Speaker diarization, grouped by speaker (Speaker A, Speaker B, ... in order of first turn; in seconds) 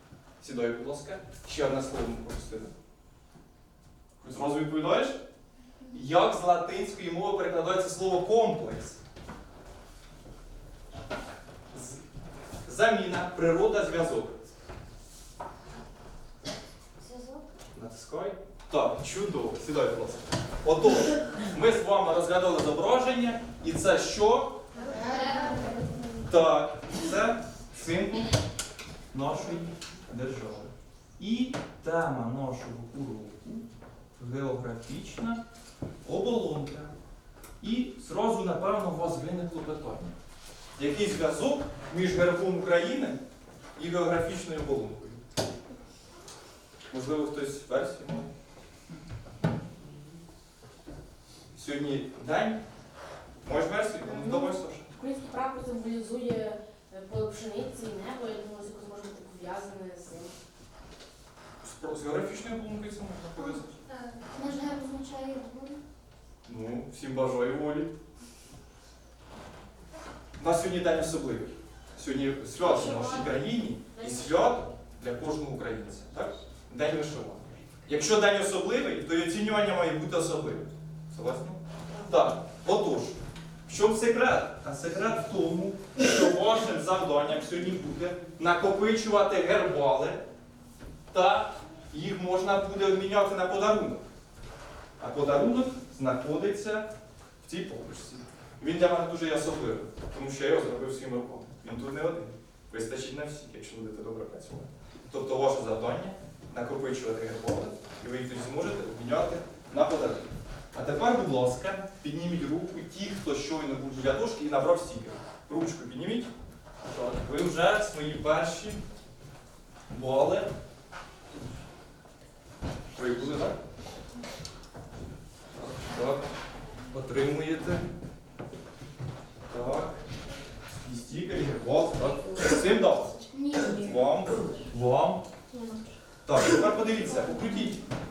Speaker A: 0.4-2.7, 4.2-5.2, 5.9-9.0, 11.7-12.0, 12.6-14.4, 17.7-24.6, 26.2-28.3, 29.1-33.6, 34.2-35.4, 36.0-36.9, 37.6-40.1, 40.8-43.2, 43.8-45.2, 46.9-48.3, 51.5-52.6, 53.4-54.9, 61.6-63.8, 66.4-67.9, 70.4-90.2, 91.1-94.0, 95.0-96.9, 97.4-116.3, 116.8-118.8, 119.9-120.5, 122.9-123.6, 125.5-126.2, 126.9-127.9, 129.5-130.0, 130.8-135.2, 136.2-137.8
Speaker B: 17.0-17.4, 24.8-25.8, 64.1-65.8, 133.3-133.9, 135.5-135.8
Speaker C: 24.9-25.6, 54.2-60.3